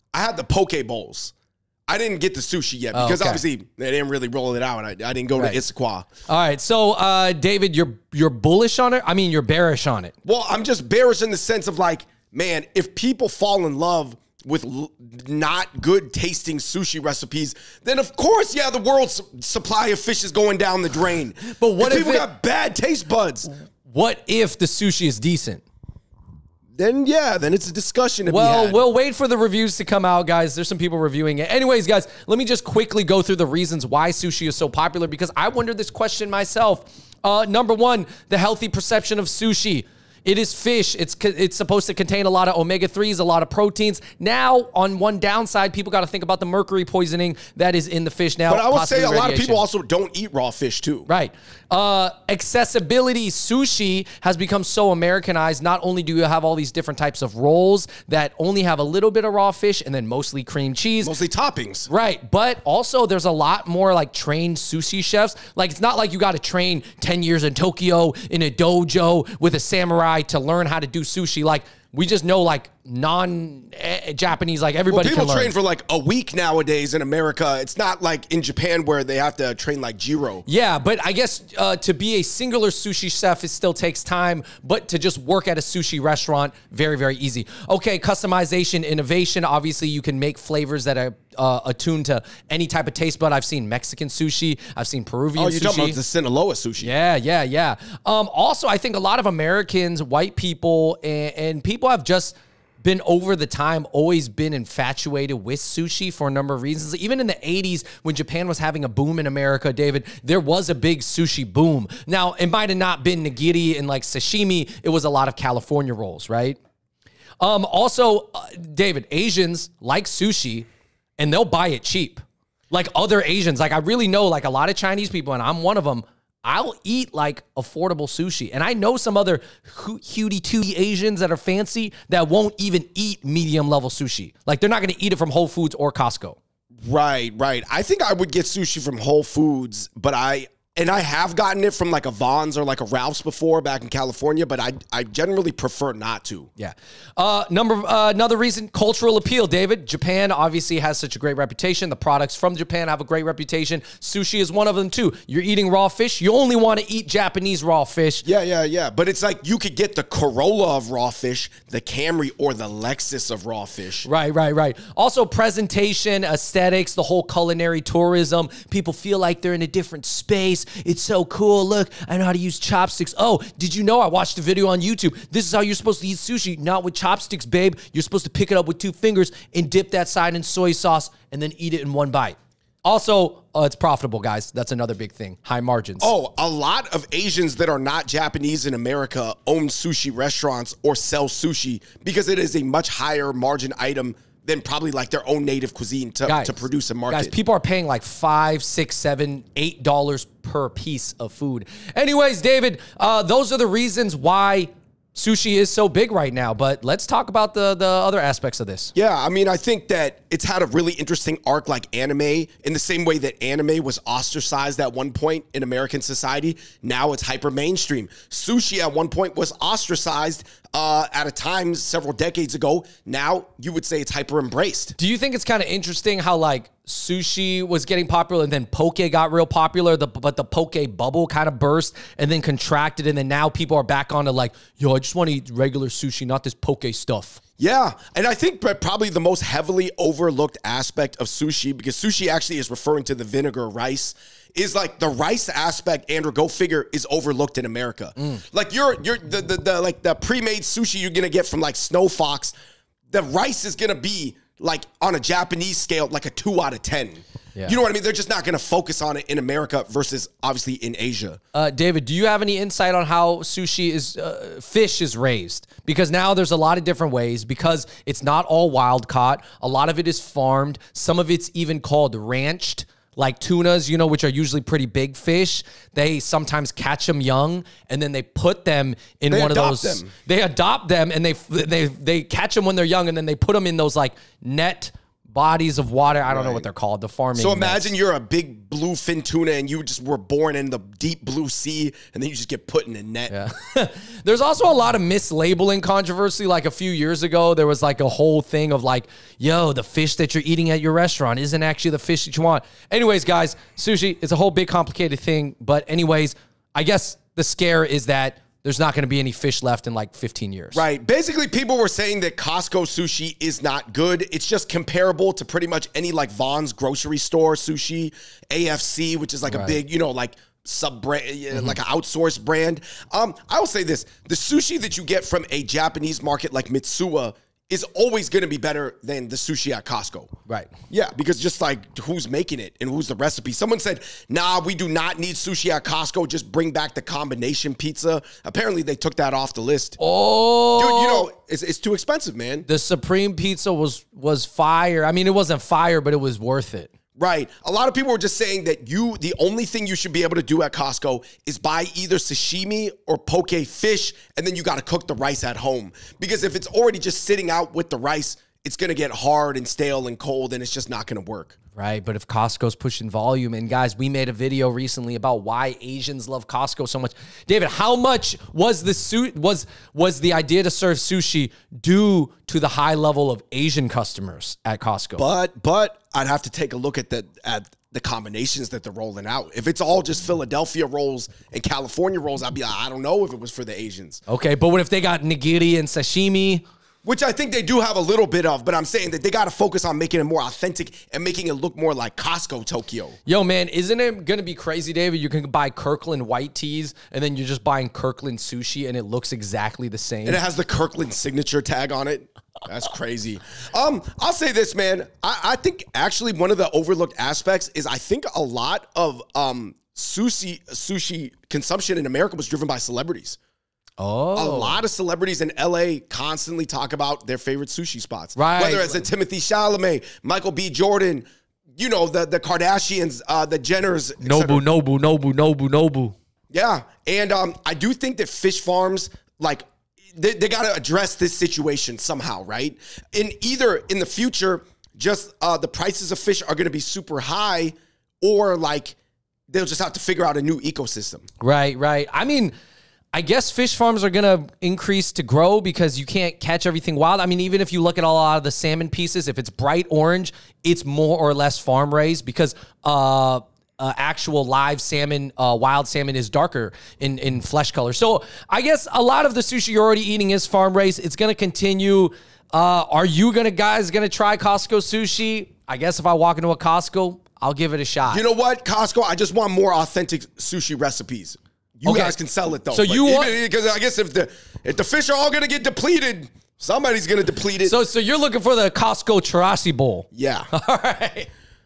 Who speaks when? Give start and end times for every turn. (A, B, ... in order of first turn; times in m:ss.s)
0:00.1-0:01.3 A
0:01.9-0:06.1 A
0:02.9-0:03.4 B
0:06.3-0:10.1 B
0:10.2-0:23.5 A
0:21.5-0:22.3 B
0:23.9-0:25.6 B
0:26.8-0:28.8 A
0:28.3-0:49.6 B
0:48.5-0:51.1 A
0:51.1-1:01.1 B
1:01.0-1:01.9 A
1:01.9-1:15.5 B
1:14.9-1:20.5 A
1:20.5-1:36.0 B
1:35.4-1:36.9 A
1:36.8-1:56.6 B
1:57.4-2:00.7 B
2:01.2-2:16.4 B
2:16.8-2:26.5 A
2:26.6-2:38.2 B
2:38.2-2:44.1 A
2:44.0-3:06.1 B
3:06.0-3:17.3 A
3:16.3-3:28.9 B
3:29.0-3:45.0 A
3:45.0-3:57.4 B
3:57.6-4:12.6 A
4:08.2-4:08.4 B
4:13.1-4:21.4 A
4:21.5-4:47.9 B
4:39.3-4:40.1 A
4:46.3-4:46.7 A
4:47.4-4:53.3 A
4:53.3-5:10.8 B
5:10.7-5:30.3 A
5:19.5-5:19.8 B
5:30.9-5:40.0 A
5:40.0-5:41.3 B
5:40.8-5:42.7 A
5:42.7-5:46.9 B
5:47.2-6:01.6 A
6:01.8-6:15.2 B
6:15.2-6:24.2 A
6:24.3-6:26.6 B
6:27.0-6:33.2 A
6:33.3-6:40.4 B
6:40.3-6:53.4 A
6:54.0-6:54.8 B
6:54.4-7:01.2 A
6:58.4-6:59.0 B
7:01.8-7:04.6 A
7:04.2-7:06.2 B
7:06.5-7:19.0 A
7:19.5-7:21.3 A
7:21.4-7:22.5 B
7:23.1-7:48.2 B
7:48.1-7:57.8 A
7:51.8-7:52.2 B
7:52.7-7:53.3 B
7:57.6-8:01.3 B
8:00.1-8:00.5 A